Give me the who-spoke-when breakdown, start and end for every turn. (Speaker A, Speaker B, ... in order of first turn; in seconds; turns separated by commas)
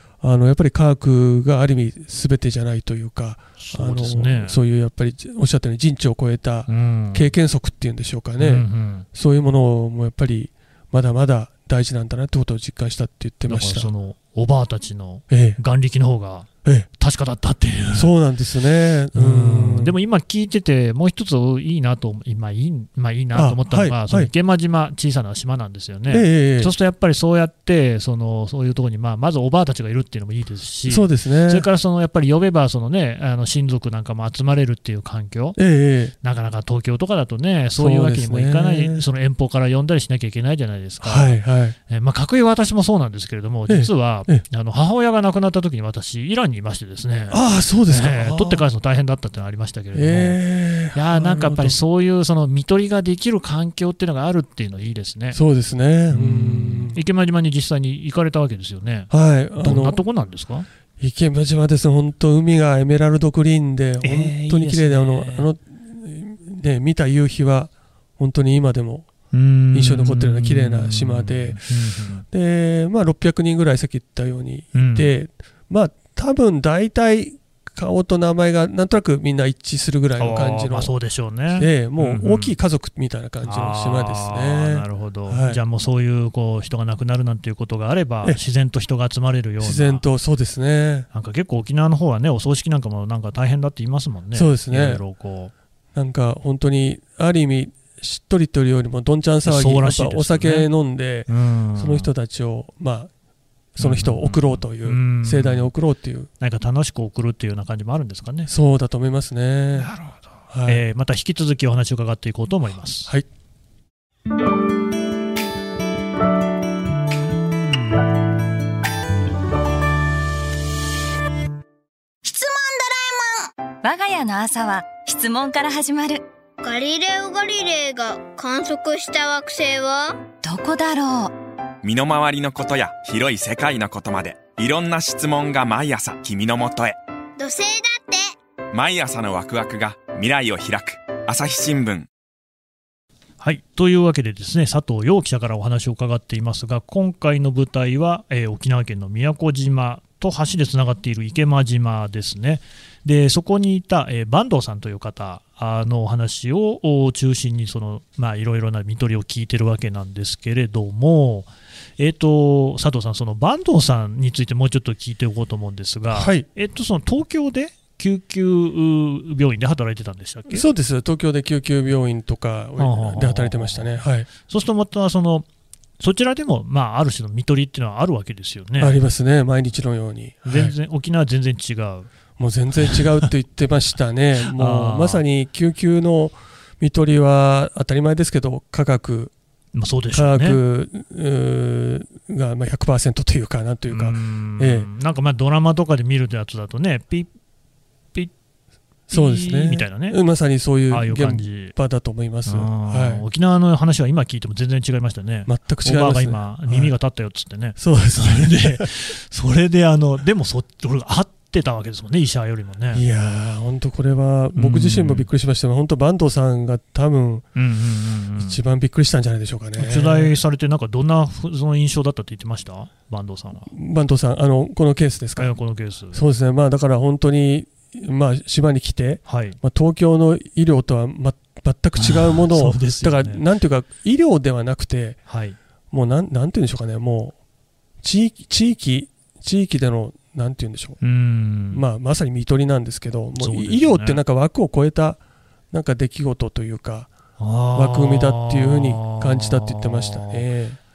Speaker A: 0.2-13.9, Speaker B: 3.6-4.6, Speaker B: 6.7-7.3, Speaker B: 8.4-9.1, Speaker B: 13.5-18.1, Speaker A: 15.3-15.6, Speaker A: 17.9-20.0, Speaker B: 19.1-35.6, Speaker A: 23.3-24.3, Speaker A: 26.1-26.7, Speaker A: 30.9-31.7, Speaker A: 35.6-36.1, Speaker B: 36.2-50.4, Speaker A: 37.8-39.0, Speaker A: 41.0-41.8, Speaker A: 43.7-44.4, Speaker A: 47.3-48.6, Speaker A: 49.9-51.8, Speaker B: 50.9-55.4, Speaker A: 55.3-57.0, Speaker B: 56.1-60.7, Speaker A: 59.1-60.0, Speaker A: 61.0-69.1, Speaker B: 64.0-65.5, Speaker B: 69.3-72.2, Speaker A: 69.7-71.6, Speaker A: 72.3-80.9, Speaker B: 74.7-75.1, Speaker B: 80.2-82.5, Speaker A: 81.5-85.6, Speaker B: 83.4-90.0, Speaker A: 89.6-91.1, Speaker B: 91.1-95.5, Speaker A: 94.3-95.0, Speaker A: 96.0-103.1, Speaker B: 99.5-100.7, Speaker B: 101.3-102.1, Speaker A: 103.8-106.3, Speaker B: 103.8-105.7, Speaker B: 106.4-108.5, Speaker A: 108.5-109.9, Speaker B: 109.8-113.1, Speaker A: 110.5-110.8, Speaker C: 122.2-126.2, Speaker D: 126.6-130.2, Speaker C: 130.4-131.3, Speaker E: 131.8-137.0, Speaker D: 137.4-138.3, Speaker E: 138.7-142.1, Speaker B: 143.4-170.7, Speaker A: 166.1-166.5, Speaker A: 170.5-174.3, Speaker B: 172.8-175.5, Speaker B: 176.0-179.0, Speaker A: 178.8-180.7, Speaker B: 180.5-182.1, Speaker A: 182.4-189.3, Speaker B: 182.8-183.3, Speaker B: 184.5-185.2, Speaker B: 189.7-190.6, Speaker A: 190.1-194.9, Speaker B: 193.9-197.3, Speaker B: 199.1-200.2, Speaker A: 199.1-203.2, Speaker B: 200.9-201.8, Speaker B: 202.5-213.0, Speaker A: 205.5-206.9, Speaker A: 207.8-208.9, Speaker A: 212.9-217.5, Speaker B: 214.6-215.3, Speaker B: 217.6-218.6, Speaker A: 218.4-220.3, Speaker B: 219.8-223.7, Speaker A: 223.7-225.5, Speaker B: 225.4-226.2, Speaker A: 226.1-235.2, Speaker B: 229.3-229.6, Speaker B: 232.0-233.4, Speaker B: 235.3-235.6, Speaker A: 235.9-237.4, Speaker A: 238.0-241.0, Speaker B: 241.0-241.8, Speaker A: 241.7-245.2, Speaker B: 243.4-244.2, Speaker A: 245.7-247.1, Speaker B: 247.4-250.4, Speaker A: 247.7-250.8